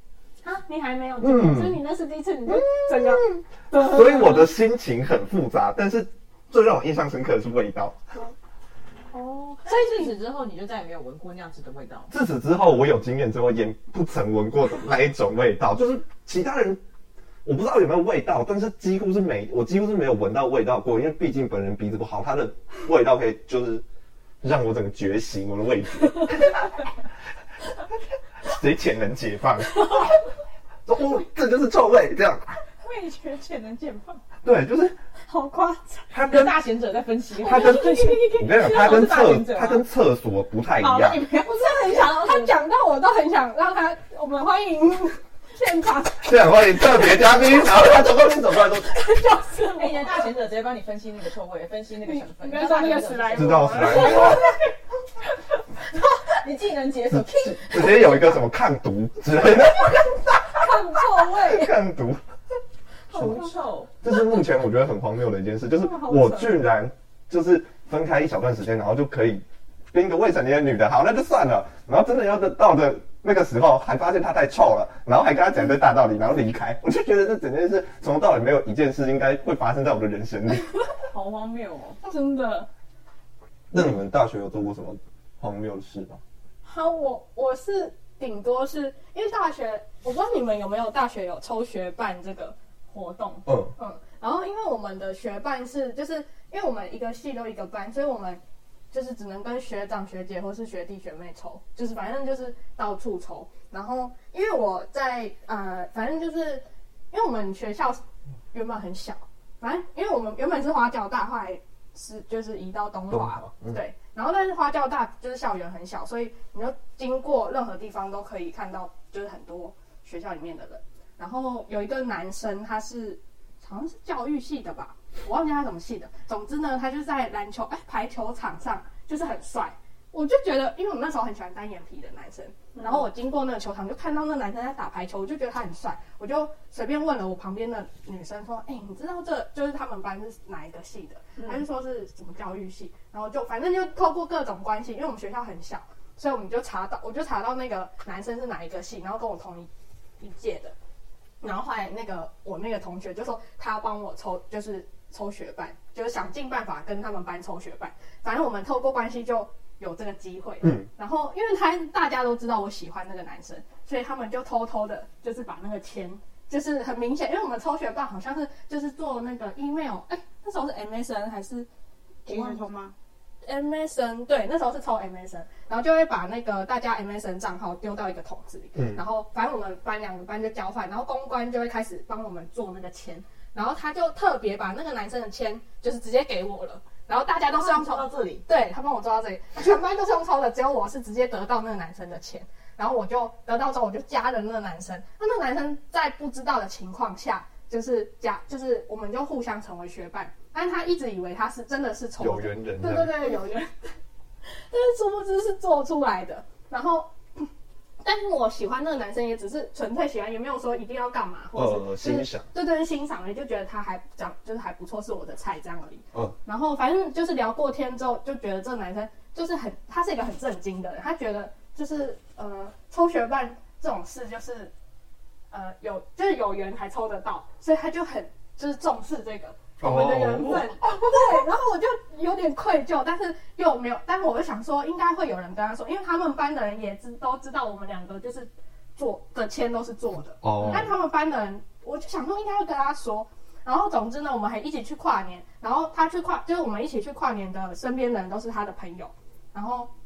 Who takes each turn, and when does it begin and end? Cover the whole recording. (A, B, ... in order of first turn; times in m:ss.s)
0:00.4-0:04.6 A
0:01.2-0:01.8 B
0:02.5-0:08.0 B
0:09.1-0:12.1 C
0:09.7-0:10.1 A
0:12.1-0:16.8 B
0:17.4-0:23.8 B
0:24.4-0:26.8 B
0:28.4-0:30.2 B
0:30.9-0:32.5 B
0:32.8-0:34.2 C
0:34.4-0:35.0 B
0:35.3-0:36.1 A
0:36.1-0:36.5 B
0:36.2-0:39.8 C
0:37.4-0:38.3 A
0:37.4-0:41.2 B
0:40.8-0:42.6 C
0:41.4-0:47.8 A
0:46.2-0:49.0 B
0:48.7-0:50.3 A
0:49.6-0:54.7 C
0:52.0-0:54.5 A
0:53.3-0:54.5 B
0:55.9-0:58.4 C
0:57.1-1:00.2 B
1:00.6-1:01.7 A
1:01.3-1:02.2 B
1:03.1-1:03.9 C
1:03.1-1:03.4 B
1:04.0-1:20.8 B
1:05.7-1:06.6 A
1:21.1-1:22.0 C
1:22.0-1:22.7 A
1:23.7-1:26.2 B
1:26.6-1:38.4 A
1:33.5-1:33.7 B
1:38.9-1:48.0 A
1:48.5-2:29.7 A
1:53.1-1:53.8 B
2:12.8-2:13.0 C
2:30.2-2:30.7 A
2:31.4-2:51.7 A
2:40.6-2:40.9 B
2:52.3-2:52.6 A
2:52.3-2:53.0 C
2:53.4-3:27.5 A
2:58.8-2:59.0 B
3:07.5-3:08.4 C
3:22.2-3:23.1 B
3:28.0-3:44.7 A
3:31.5-3:32.5 B
3:45.5-4:09.9 A
3:49.8-3:50.8 B
3:50.9-3:51.3 C
4:00.4-4:01.0 B
4:00.6-4:00.9 C